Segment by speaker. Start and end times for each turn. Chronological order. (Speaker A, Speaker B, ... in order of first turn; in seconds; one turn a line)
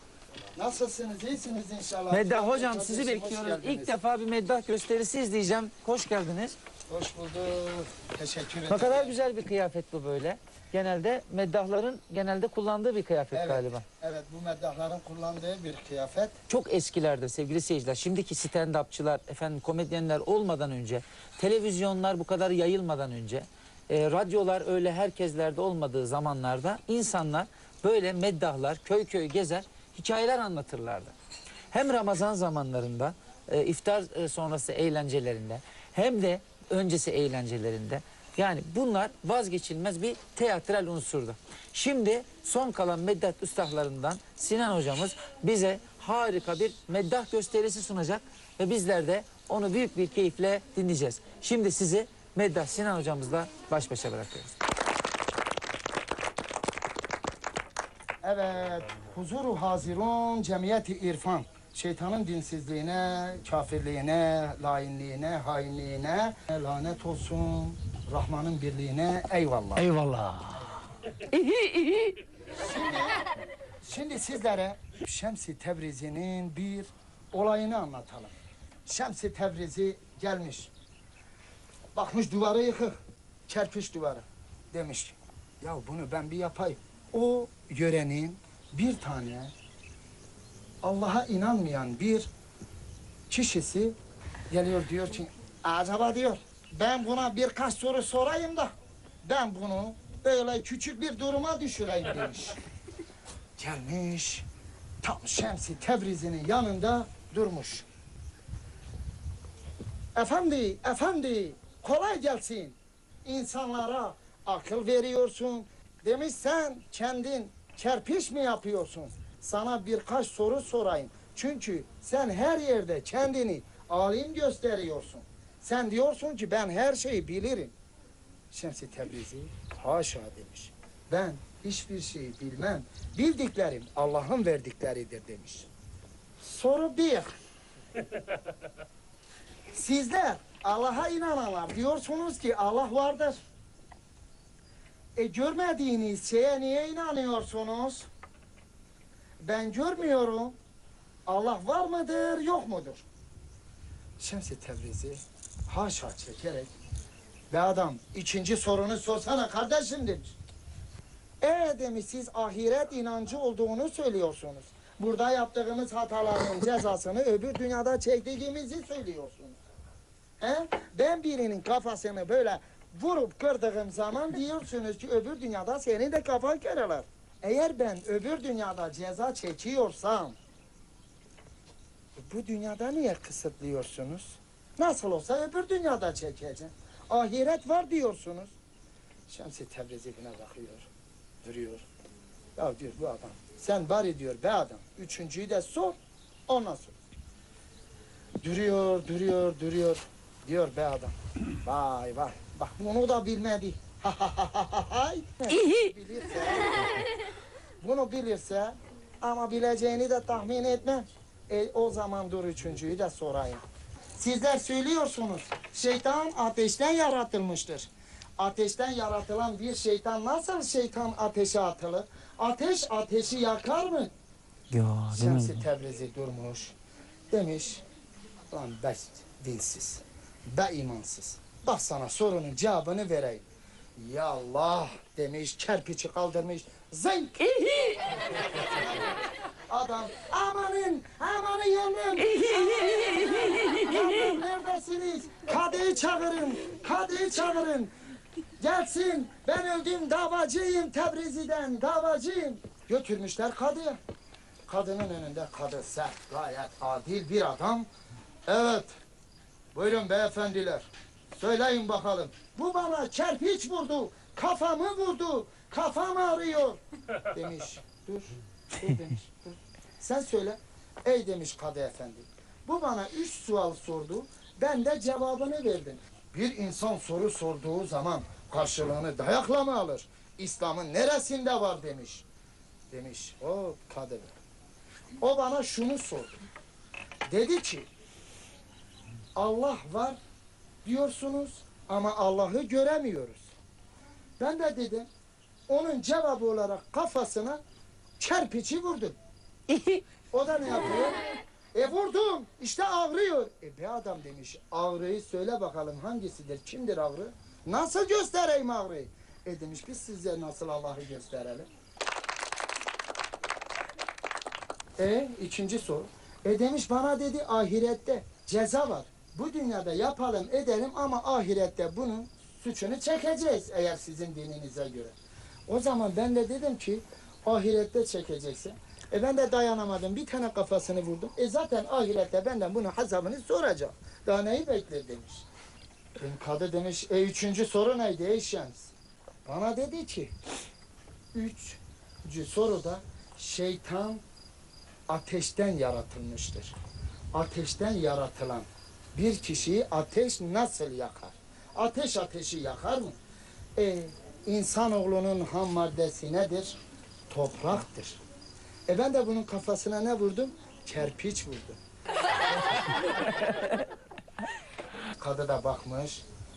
Speaker A: 0.5-4.0
Speaker B: 2.1-6.6
Speaker A: 6.9-9.2
Speaker B: 8.7-13.8
Speaker A: 13.3-16.4
Speaker B: 16.5-31.1
Speaker B: 31.7-54.5
Speaker A: 58.2-69.9
Speaker B: 70.0-70.6
Speaker B: 71.2-72.2
Speaker A: 72.5-73.3
Speaker A: 73.8-78.3
Speaker A: 78.9-80.7
Speaker A: 81.9-83.0
Speaker A: 83.5-89.5
Speaker A: 90.8-92.3
Speaker A: 93.3-94.0
Speaker A: 94.5-98.7
Speaker A: 99.2-102.6
Speaker A: 103.6-104.5
Speaker A: 105.0-107.8
Speaker A: 110.2-127.7
Speaker A: 128.5-135.7
Speaker A: 136.4-137.3
Speaker A: 139.7-143.4
Speaker A: 145.2-148.1
Speaker A: 149.4-150.6
Speaker A: 151.2-153.0
Speaker A: 154.2-156.7
Speaker A: 157.5-160.3
Speaker A: 161.4-169.6
Speaker A: 170.4-180.3
Speaker A: 182.2-188.5
Speaker A: 189.3-190.9
Speaker A: 191.4-191.8
Speaker A: 192.6-196.0
Speaker A: 196.5-196.9
Speaker A: 198.4-207.1
Speaker B: 205.6-205.8
Speaker A: 207.8-213.6
Speaker A: 214.2-224.1
Speaker B: 224.7-225.7
Speaker A: 225.1-226.7
Speaker A: 227.3-227.8
Speaker A: 228.5-233.4
Speaker A: 234.0-237.6
Speaker B: 237.7-238.0
Speaker A: 238.4-247.9
Speaker B: 242.4-243.8
Speaker A: 248.6-254.0
Speaker A: 254.7-257.9
Speaker A: 258.4-258.9
Speaker A: 259.7-260.9
Speaker A: 261.4-266.8
Speaker A: 267.3-282.2
Speaker A: 282.9-284.3
Speaker A: 285.2-286.4
Speaker A: 287.3-287.9
Speaker A: 289.4-290.2
Speaker A: 290.8-293.5
Speaker A: 294.4-295.1
Speaker A: 295.7-297.6
Speaker A: 298.2-299.2
Speaker B: 299.7-300.0
Speaker A: 300.3-301.2
Speaker A: 301.7-311.7
Speaker A: 315.0-325.1
Speaker A: 325.7-335.4
Speaker A: 336.2-338.9
Speaker A: 339.4-340.3
Speaker A: 341.3-344.2
Speaker A: 345.1-346.8
Speaker A: 347.3-353.2
Speaker A: 353.8-356.8
Speaker A: 357.3-358.2
Speaker A: 358.9-361.8
Speaker A: 365.2-366.2